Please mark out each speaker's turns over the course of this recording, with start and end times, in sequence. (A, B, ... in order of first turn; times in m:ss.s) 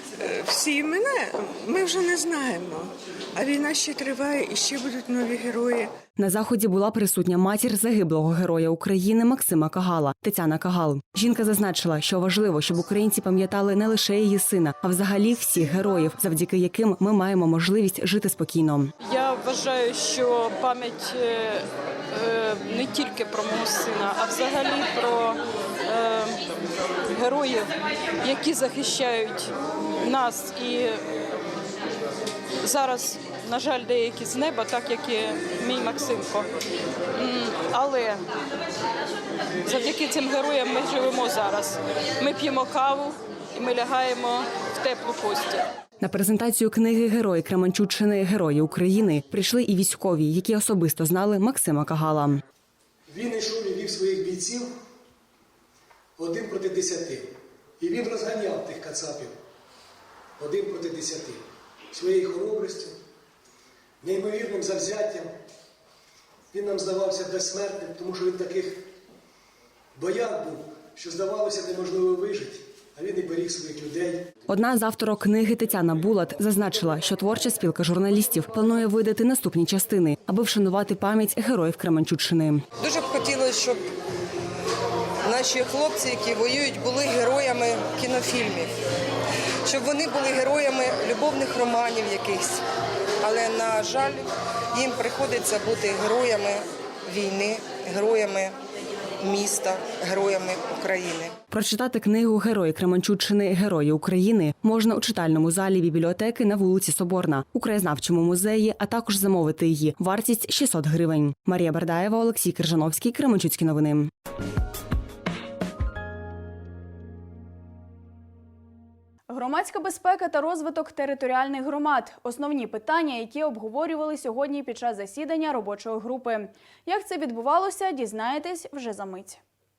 0:00.2-0:05.9 A
0:06.2-0:18.9 B
0:19.0-0:26.4 C
0:27.1-0:27.7 C
0:28.2-0:31.0 C
0:32.6-0:36.5 C
0:37.2-0:38.2 C
0:39.6-0:45.6 C
0:46.0-0:52.4 B
0:53.1-0:54.7 D
0:56.2-0:59.3 D
1:00.4-1:03.0 D
1:04.0-1:05.3 D
1:06.5-1:08.8 D
1:10.0-1:14.2 D
1:14.5-1:22.6 B
1:22.8-1:23.9 E
1:25.2-1:28.7 E
1:29.6-1:32.6 E
1:33.2-1:38.6 E
1:39.2-1:41.3 E
1:41.5-1:54.1 B
1:59.3-2:09.4 F